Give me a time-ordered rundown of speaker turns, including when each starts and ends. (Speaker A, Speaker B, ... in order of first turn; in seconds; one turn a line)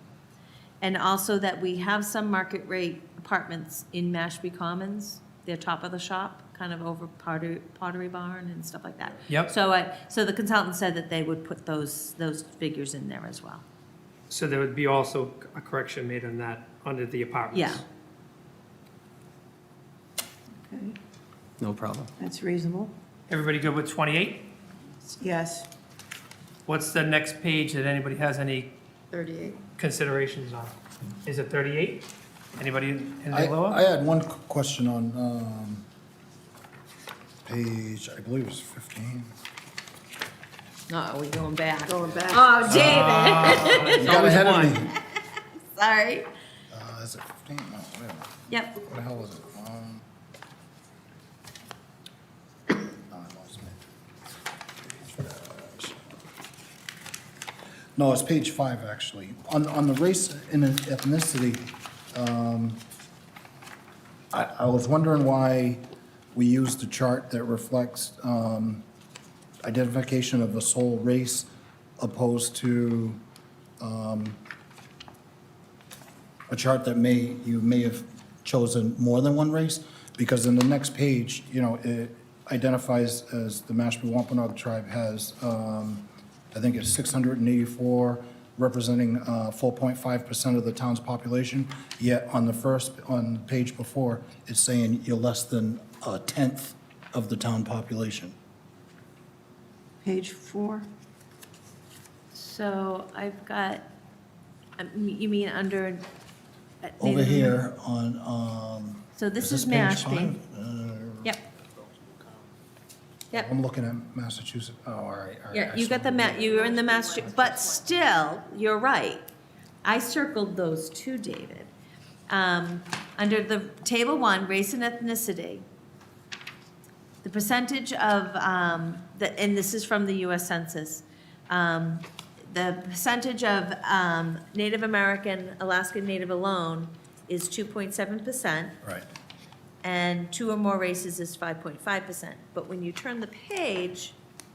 Speaker A: 0.8-13.6
Speaker B: 14.3-17.8
Speaker A: 17.5-17.8
Speaker C: 20.7-20.9
Speaker C: 22.2-22.9
Speaker B: 23.3-24.5
Speaker C: 25.2-25.7
Speaker B: 26.7-28.7
Speaker D: 29.1-29.6
Speaker B: 29.8-30.7
Speaker B: 31.2-33.8
Speaker E: 33.3-35.8
Speaker E: 37.4-39.3
Speaker A: 40.9-44.1
Speaker D: 41.9-42.9
Speaker B: 42.7-44.8
Speaker E: 44.0-44.9
Speaker A: 45.7-46.3
Speaker E: 46.7-50.0
Speaker E: 52.9-53.8
Speaker E: 54.8-56.0
Speaker E: 58.0-62.8
Speaker E: 64.3-65.8
Speaker E: 66.3-68.8
Speaker E: 69.6-71.5
Speaker E: 72.0-73.2
Speaker E: 73.8-74.4
Speaker E: 76.5-98.3
Speaker C: 100.0-100.9
Speaker A: 102.3-103.8
Speaker A: 104.8-106.0
Speaker A: 106.8-107.6
Speaker E: 107.0-111.3
Speaker A: 109.2-110.3
Speaker E: 113.3-116.6
Speaker A: 115.5-119.2
Speaker D: 116.7-117.2
Speaker A: 119.8-121.7
Speaker A: 122.3-125.6
Speaker A: 127.2-138.7
Speaker A: 139.8-144.2